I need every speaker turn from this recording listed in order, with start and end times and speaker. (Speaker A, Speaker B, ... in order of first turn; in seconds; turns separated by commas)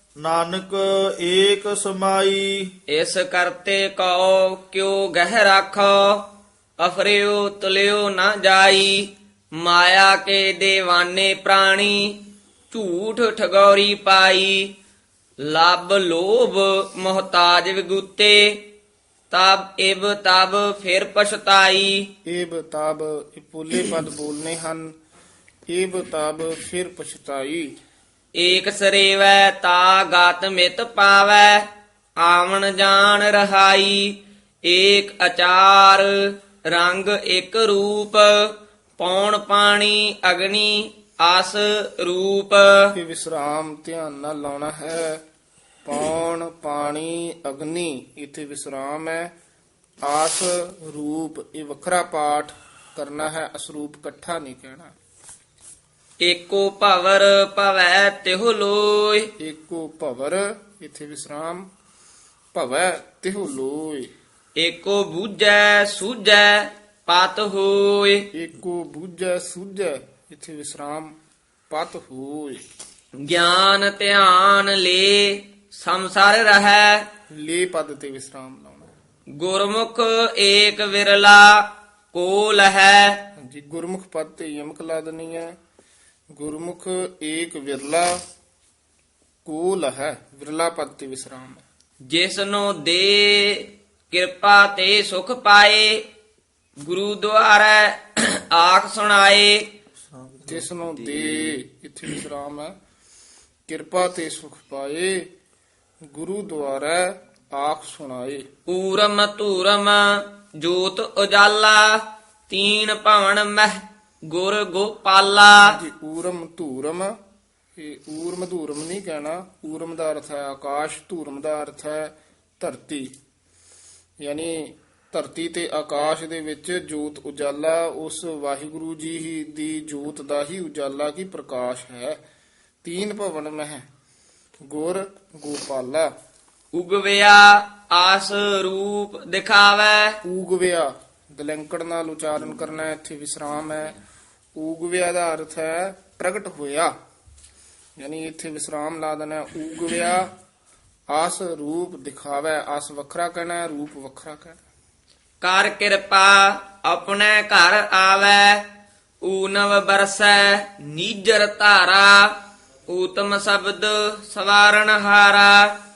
Speaker A: 0.2-2.7, Speaker B: 2.9-14.8, Speaker B: 15.4-18.7, Speaker B: 19.3-22.1, Speaker C: 22.2-24.9, Speaker C: 25.7-27.7, Speaker B: 28.3-42.9, Speaker C: 42.9-45.2, Speaker C: 45.8-49.3, Speaker C: 50.0-54.9, Speaker B: 56.2-59.3, Speaker C: 59.4-61.7, Speaker C: 62.5-64.1, Speaker B: 64.5-68.3, Speaker C: 68.3-71.1, Speaker C: 71.7-72.6, Speaker B: 73.2-77.1, Speaker C: 77.3-78.9, Speaker B: 79.3-83.3, Speaker C: 83.4-85.5, Speaker C: 86.3-88.2, Speaker C: 89.4-91.6, Speaker B: 92.0-96.1, Speaker B: 96.8-99.7, Speaker A: 100.1-101.6, Speaker C: 100.5-102.7, Speaker C: 103.7-105.3, Speaker C: 106.1-108.5, Speaker B: 108.7-115.8, Speaker C: 115.6-117.2, Speaker C: 117.8-123.1, Speaker C: 124.2-132.2, Speaker C: 132.8-133.9, Speaker C: 134.7-136.1, Speaker B: 136.7-140.2, Speaker C: 140.2-144.0, Speaker C: 144.6-146.9, Speaker C: 148.0-150.3, Speaker C: 151.1-154.6, Speaker B: 155.4-158.7, Speaker B: 159.2-165.8